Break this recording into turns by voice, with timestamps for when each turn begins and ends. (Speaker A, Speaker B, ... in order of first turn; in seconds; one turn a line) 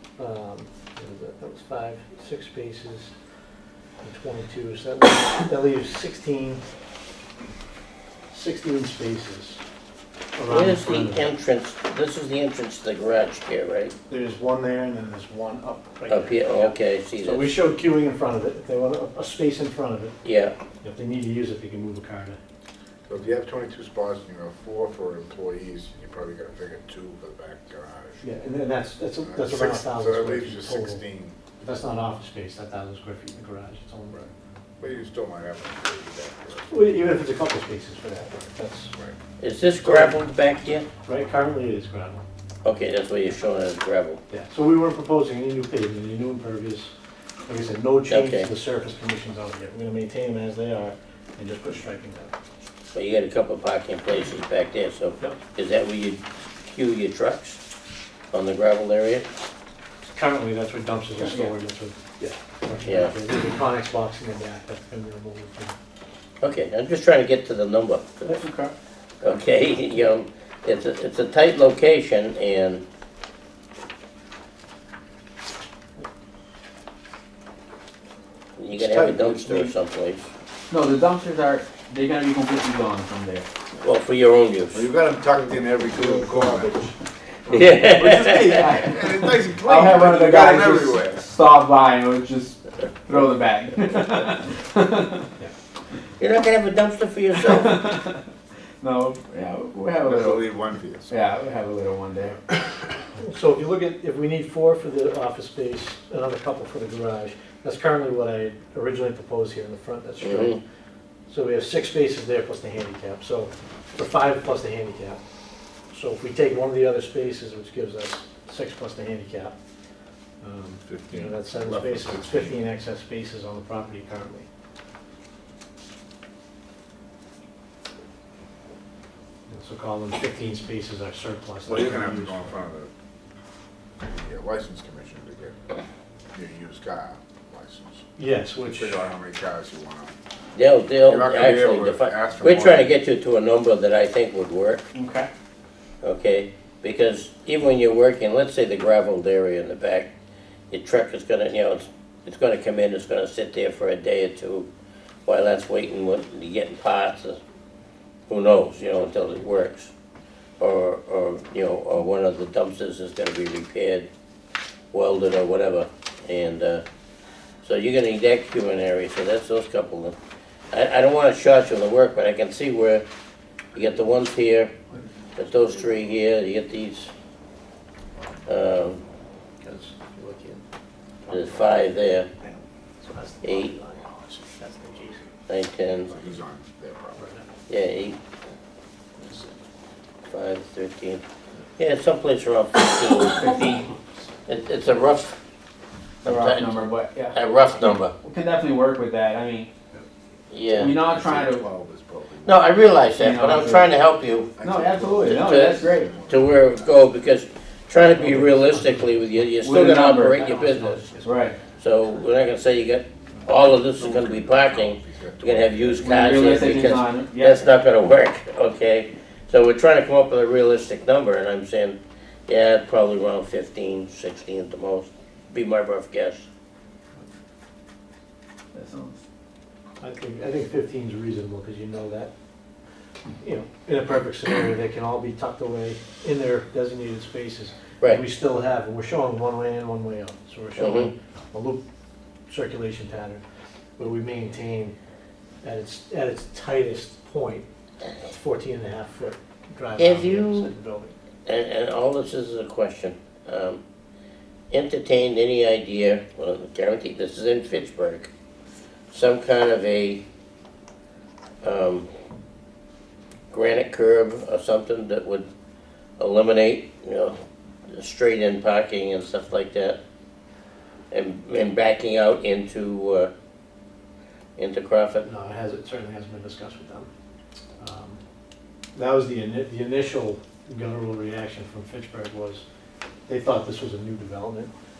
Speaker A: 0.2-3.1
Speaker A: 4.0-6.6
Speaker A: 8.3-9.6
Speaker A: 10.3-11.3
Speaker B: 10.5-13.9
Speaker A: 14.1-20.1
Speaker B: 16.1-17.5
Speaker B: 20.2-20.6
Speaker A: 20.8-22.4
Speaker C: 23.1-28.2
Speaker A: 28.2-31.0
Speaker C: 29.2-31.4
Speaker A: 31.6-34.2
Speaker C: 34.1-36.7
Speaker A: 36.7-38.9
Speaker B: 39.4-40.9
Speaker A: 39.7-40.2
Speaker A: 41.0-42.2
Speaker B: 42.6-44.2
Speaker A: 44.3-46.9
Speaker A: 47.5-52.3
Speaker B: 48.1-48.5
Speaker B: 52.9-57.6
Speaker B: 58.3-59.2
Speaker A: 60.0-65.7
Speaker D: 61.2-61.5
Speaker B: 62.8-63.1
Speaker B: 66.4-68.4
Speaker D: 68.3-68.7
Speaker B: 69.2-72.8
Speaker B: 78.6-80.3
Speaker C: 78.8-79.7
Speaker D: 80.7-83.5
Speaker B: 83.8-84.8
Speaker C: 84.7-86.9
Speaker B: 87.5-88.6
Speaker C: 87.8-91.2
Speaker D: 88.5-95.3
Speaker B: 96.2-97.9
Speaker D: 97.4-98.2
Speaker D: 98.8-100.5
Speaker C: 100.0-101.2
Speaker D: 101.1-102.4
Speaker A: 103.2-110.6
Speaker B: 110.2-110.6
Speaker A: 111.3-115.2
Speaker A: 115.9-119.5
Speaker A: 120.4-124.5
Speaker C: 120.9-122.5
Speaker A: 129.5-132.5
Speaker C: 131.7-132.9
Speaker C: 134.0-135.8
Speaker C: 136.3-138.1
Speaker A: 138.2-139.0
Speaker C: 138.6-140.1
Speaker B: 140.5-144.8
Speaker C: 141.0-143.0
Speaker D: 144.9-145.3
Speaker B: 146.0-150.1
Speaker B: 150.7-154.7
Speaker B: 155.2-157.4
Speaker B: 158.3-159.9
Speaker B: 160.6-164.1
Speaker B: 164.9-166.8
Speaker B: 167.6-170.1
Speaker B: 170.7-173.0
Speaker B: 173.7-174.8
Speaker B: 175.3-177.1
Speaker B: 178.5-179.0
Speaker A: 179.6-180.6
Speaker A: 181.2-185.2
Speaker B: 181.3-182.3
Speaker B: 183.4-183.7
Speaker C: 184.0-184.5
Speaker B: 185.5-186.1
Speaker C: 186.0-187.2
Speaker A: 187.2-187.5
Speaker B: 187.7-188.2
Speaker C: 189.2-189.5
Speaker B: 190.3-191.2
Speaker B: 191.8-193.5
Speaker D: 193.3-193.9
Speaker B: 194.5-195.4
Speaker B: 196.2-198.1
Speaker D: 196.2-199.7
Speaker B: 200.5-200.9
Speaker D: 200.7-201.7
Speaker C: 200.8-203.6
Speaker B: 202.4-204.6
Speaker D: 203.2-203.9
Speaker C: 204.5-207.0
Speaker D: 204.6-206.1
Speaker B: 205.2-211.1
Speaker A: 208.1-209.6
Speaker D: 209.6-210.4
Speaker A: 210.3-211.5
Speaker D: 211.2-211.6
Speaker B: 211.8-226.4
Speaker C: 213.9-216.7
Speaker D: 216.0-217.7
Speaker D: 228.7-229.2
Speaker A: 230.0-232.3
Speaker A: 233.4-241.8
Speaker B: 240.8-241.1
Speaker A: 242.5-243.4
Speaker A: 244.0-244.9
Speaker A: 245.6-251.1
Speaker B: 250.0-250.7
Speaker B: 251.5-253.8
Speaker B: 254.7-258.3
Speaker B: 259.1-260.2
Speaker B: 261.6-262.1
Speaker B: 263.5-265.5
Speaker B: 266.2-270.0
Speaker B: 271.1-273.3
Speaker B: 274.6-275.3
Speaker A: 275.2-277.1
Speaker A: 277.8-278.2
Speaker A: 278.9-282.6
Speaker A: 283.3-284.7